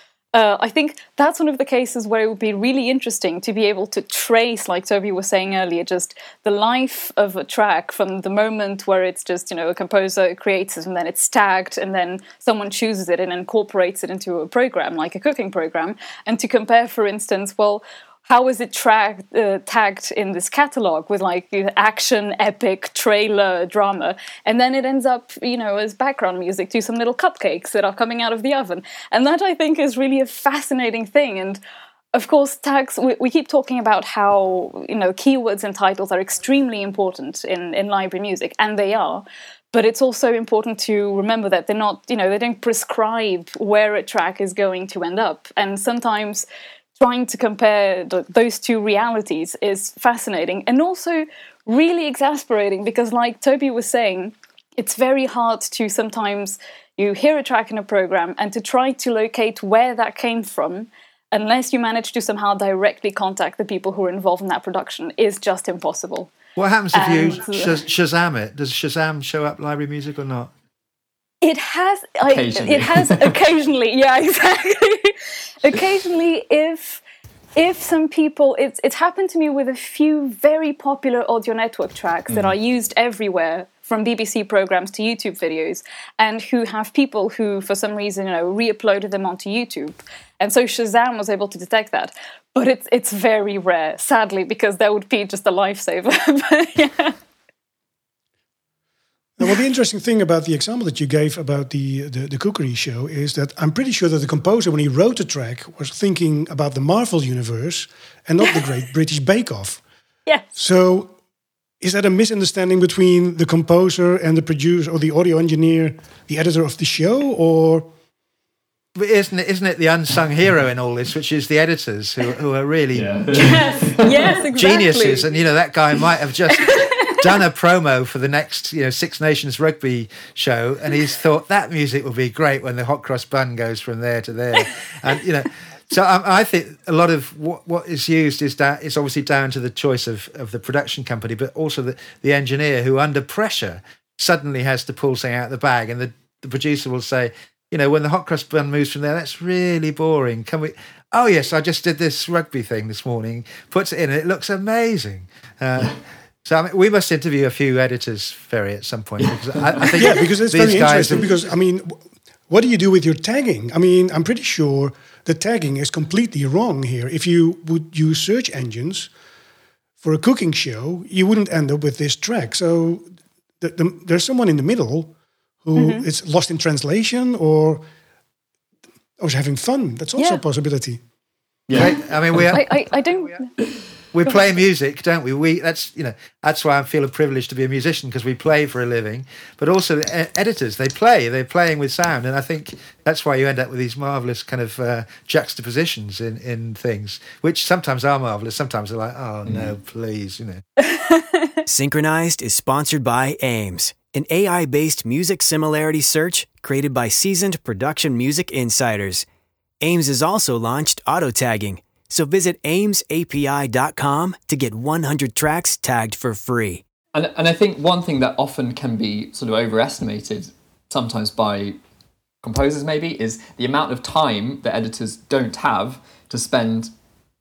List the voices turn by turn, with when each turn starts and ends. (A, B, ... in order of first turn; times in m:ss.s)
0:00.3-0:31.6 A
0:32.1-0:46.4 A
0:47.0-1:06.3 A
1:06.6-1:10.5 B
1:06.9-1:07.8 A
1:11.4-1:17.0 A
1:12.3-1:13.4 C
1:17.6-1:37.1 A
1:39.4-1:49.8 D
1:50.2-1:50.6 A
1:50.6-1:51.2 D
1:51.8-1:57.9 D
1:59.0-2:03.6 B
2:02.9-2:04.3 C
2:03.3-2:05.3 A
2:04.5-2:41.3 B
2:06.5-2:07.2 A
2:39.9-2:49.1 D
2:50.0-2:53.0 D
2:53.6-2:57.8 D
2:55.8-2:56.0 A
2:59.2-3:01.0 D
3:00.2-3:00.4 A
3:01.7-3:02.5 C
3:01.7-3:02.7 B
3:02.5-3:03.5 A
3:04.1-3:20.6 B
3:19.4-3:19.7 C
3:20.8-3:21.5 A
3:21.7-3:29.2 E
3:29.8-3:36.8 E
3:37.1-3:41.8 C
3:42.4-3:46.9 C